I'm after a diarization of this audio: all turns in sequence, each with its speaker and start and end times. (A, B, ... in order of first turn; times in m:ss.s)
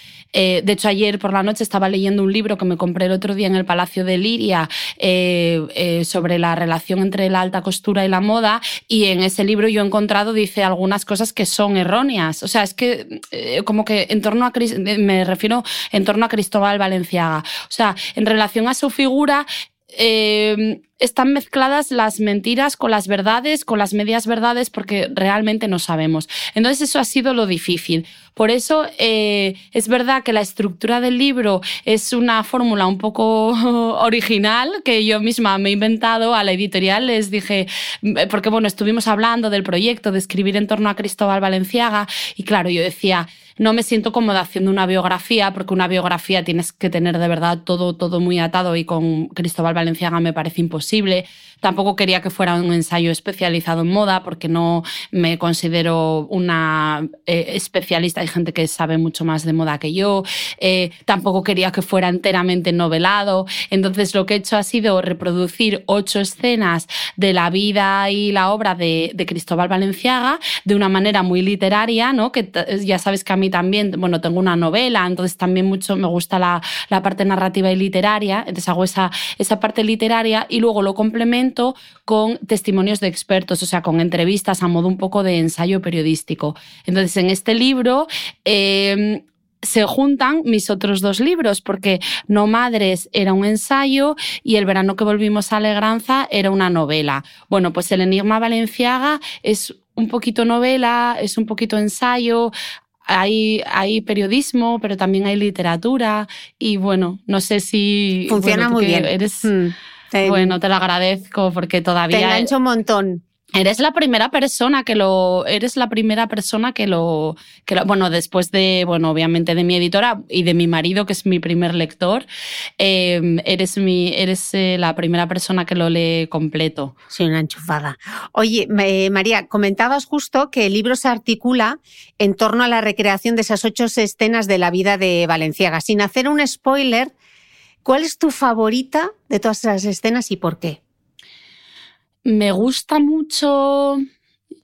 0:00.3-1:42.5 A
1:43.1-1:49.5 A
1:48.3-1:50.6 B
1:50.2-1:52.5 A
1:52.1-1:53.2 B
1:53.6-2:02.3 A
2:02.8-2:06.9 A
2:07.1-2:17.1 B
2:17.8-2:20.8 B
2:22.2-2:24.0 A